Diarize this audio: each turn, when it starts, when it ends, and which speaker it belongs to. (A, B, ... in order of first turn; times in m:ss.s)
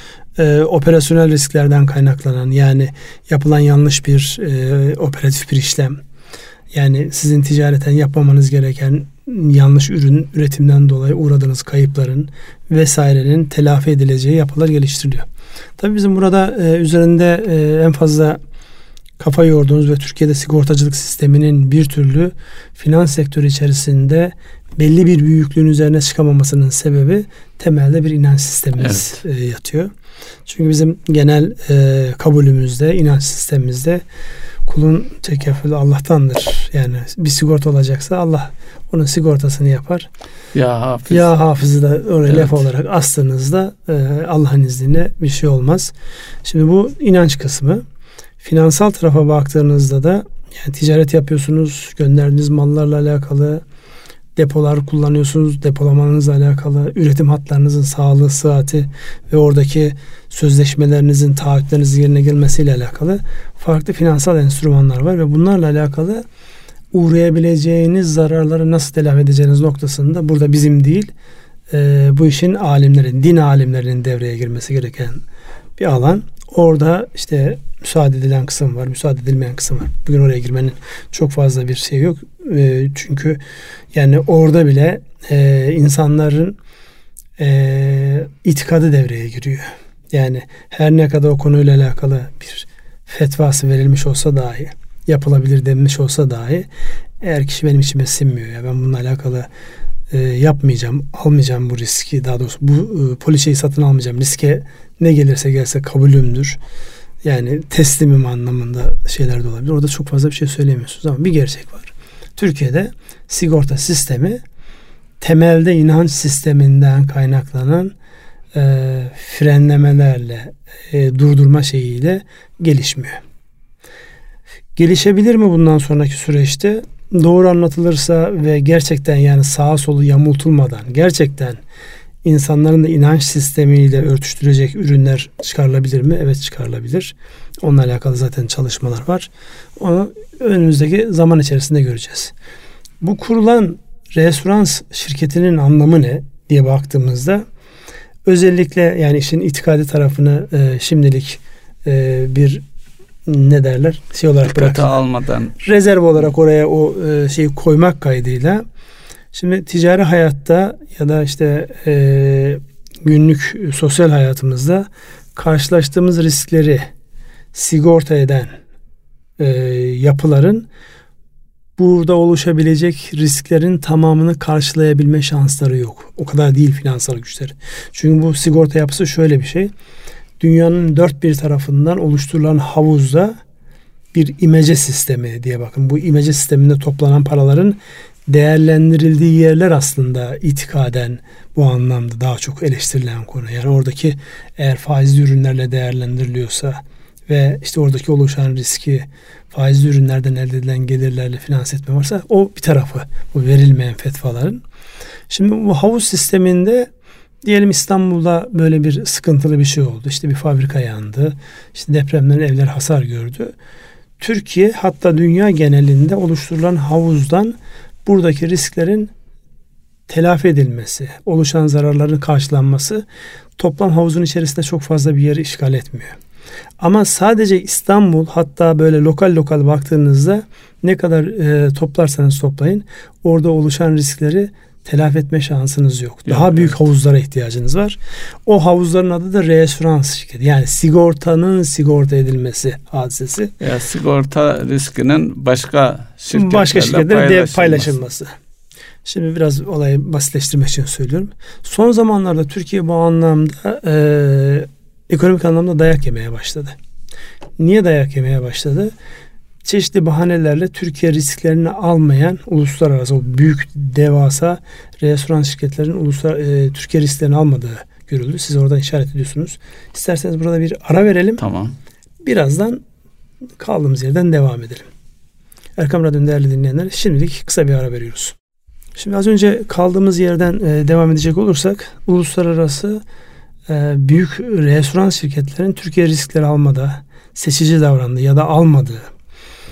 0:00.4-0:06.0 A
0:06.7-0:15.3 A
0:15.8-0:18.4 A
0:19.2-0:29.9 A
0:28.8-0:29.2 B
0:30.5-0:34.0 A
0:34.7-0:40.1 A
0:40.5-0:41.3 B
0:41.1-0:45.9 A
0:42.3-0:42.6 B
0:46.4-0:47.8 A
0:48.4-0:53.6 A
0:54.4-1:06.2 A
1:06.9-1:11.1 A
1:11.7-1:15.2 A
1:15.8-1:23.4 A
1:23.9-1:26.6 A
1:27.4-1:36.7 A
1:37.2-1:39.5 A
1:40.1-1:46.6 A
1:47.2-1:54.4 A
1:55.2-1:57.9 A
1:58.5-2:03.2 A
2:04.8-2:11.6 A
2:12.2-2:22.3 A
2:23.0-2:27.4 A
2:28.3-2:32.6 A
2:33.3-2:34.9 A
2:34.4-2:35.6 B
2:35.6-2:38.6 A
2:39.3-2:46.9 A
2:47.5-2:48.5 A
2:49.4-2:50.7 A
2:51.8-2:59.7 A
3:00.4-3:03.4 A
3:04.1-3:24.6 A
3:25.3-3:26.9 A
3:27.4-3:33.5 A
3:34.2-3:39.1 A
3:40.1-3:43.0 A
3:43.6-3:46.2 A
3:46.8-4:03.5 A
3:56.3-3:56.8 B
4:03.6-4:07.9 B
4:06.3-4:08.3 A
4:09.0-4:16.8 A
4:17.6-4:18.9 A
4:19.6-4:31.4 A
4:31.4-4:31.8 B
4:32.2-4:32.8 A
4:33.6-4:34.9 A
4:35.8-4:38.4 A
4:39.0-4:43.0 A
4:43.7-4:49.0 A